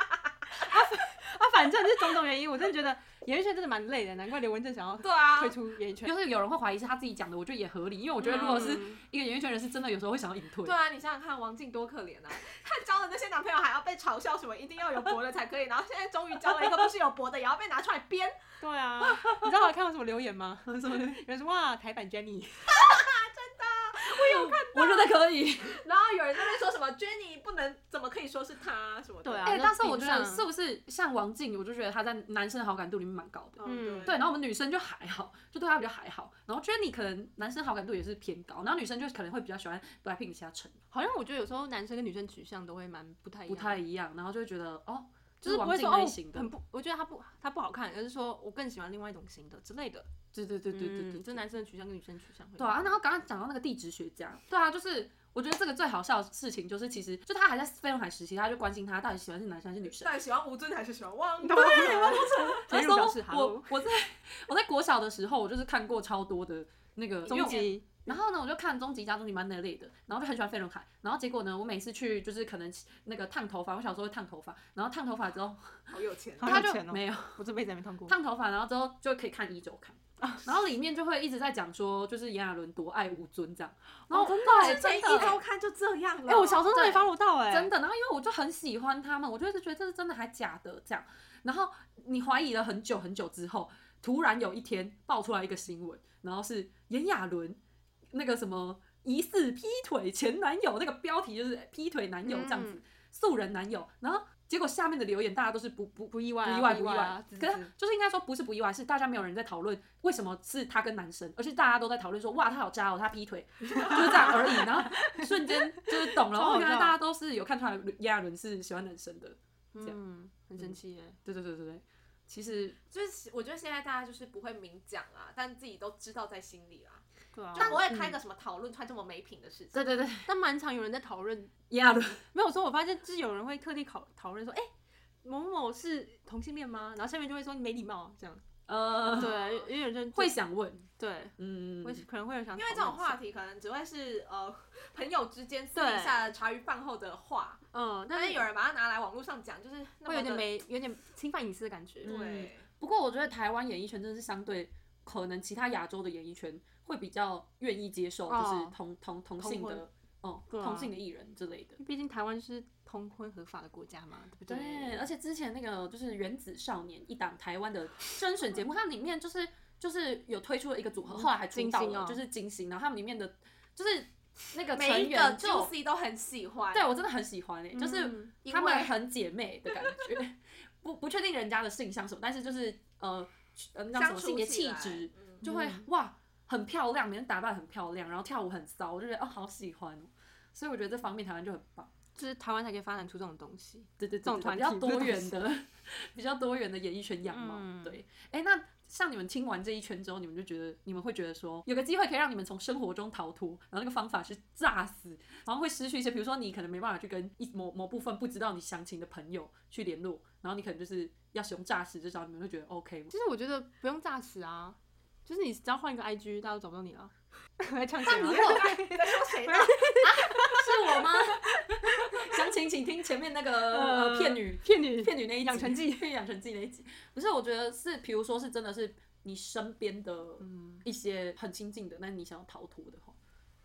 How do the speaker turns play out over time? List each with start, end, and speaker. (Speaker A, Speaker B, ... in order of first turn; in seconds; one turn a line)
Speaker A: 0.6-6.1
Speaker B: 5.0-5.5
Speaker C: 6.0-10.8
Speaker A: 8.2-9.0
Speaker B: 10.6-18.4
Speaker A: 18.6-22.7
Speaker C: 19.1-19.5
Speaker C: 20.6-21.2
Speaker B: 22.7-25.1
Speaker C: 24.2-25.8
Speaker B: 25.6-29.6
Speaker A: 29.2-30.4
Speaker C: 29.4-40.8
Speaker B: 33.6-34.2
Speaker A: 33.6-34.2
Speaker A: 40.9-43.8
Speaker C: 43.5-46.5
Speaker A: 45.4-50.1
Speaker C: 50.3-51.4
Speaker A: 50.7-52.9
Speaker C: 52.6-60.1
Speaker B: 59.8-62.6
Speaker A: 61.4-63.7
Speaker C: 61.6-75.9
Speaker A: 67.2-68.2
Speaker B: 67.3-67.7
Speaker B: 75.9-76.7
Speaker A: 76.4-78.1
Speaker C: 76.4-77.4
Speaker C: 78.1-85.4
Speaker A: 80.2-80.6
Speaker A: 84.1-85.4
Speaker B: 84.2-87.0
Speaker A: 86.2-87.7
Speaker C: 86.7-97.6
Speaker C: 98.1-120.0
Speaker A: 102.2-102.8
Speaker A: 106.1-107.7
Speaker A: 113.7-117.0
Speaker A: 119.7-121.2
Speaker C: 120.6-122.8
Speaker B: 122.9-127.0
Speaker A: 127.3-127.8
Speaker C: 127.5-128.2
Speaker B: 127.5-129.8
Speaker C: 129.7-130.3
Speaker A: 130.2-131.5
Speaker C: 131.7-132.2
Speaker A: 132.3-134.7
Speaker A: 135.2-138.4
Speaker C: 138.7-139.4
Speaker A: 139.0-140.4
Speaker B: 139.1-139.6
Speaker C: 140.1-142.0
Speaker A: 141.0-143.2
Speaker B: 142.6-150.4
Speaker A: 145.7-146.2
Speaker A: 147.7-148.4
Speaker A: 150.1-152.1
Speaker B: 152.0-152.7
Speaker C: 152.0-161.8
Speaker A: 158.3-158.8
Speaker A: 159.4-159.8
Speaker A: 160.5-160.9
Speaker A: 161.8-165.0
Speaker C: 164.5-175.7
Speaker A: 171.1-172.2
Speaker B: 174.7-176.9
Speaker C: 176.7-191.9
Speaker A: 177.7-178.4
Speaker B: 178.4-178.9
Speaker B: 183.9-185.4
Speaker A: 185.4-185.8
Speaker A: 192.1-195.4
Speaker C: 194.0-213.1
Speaker A: 197.3-198.0
Speaker A: 213.1-221.2
Speaker B: 218.1-220.4
Speaker C: 218.1-218.7
Speaker C: 220.0-233.2
Speaker A: 223.6-226.1
Speaker A: 230.4-230.8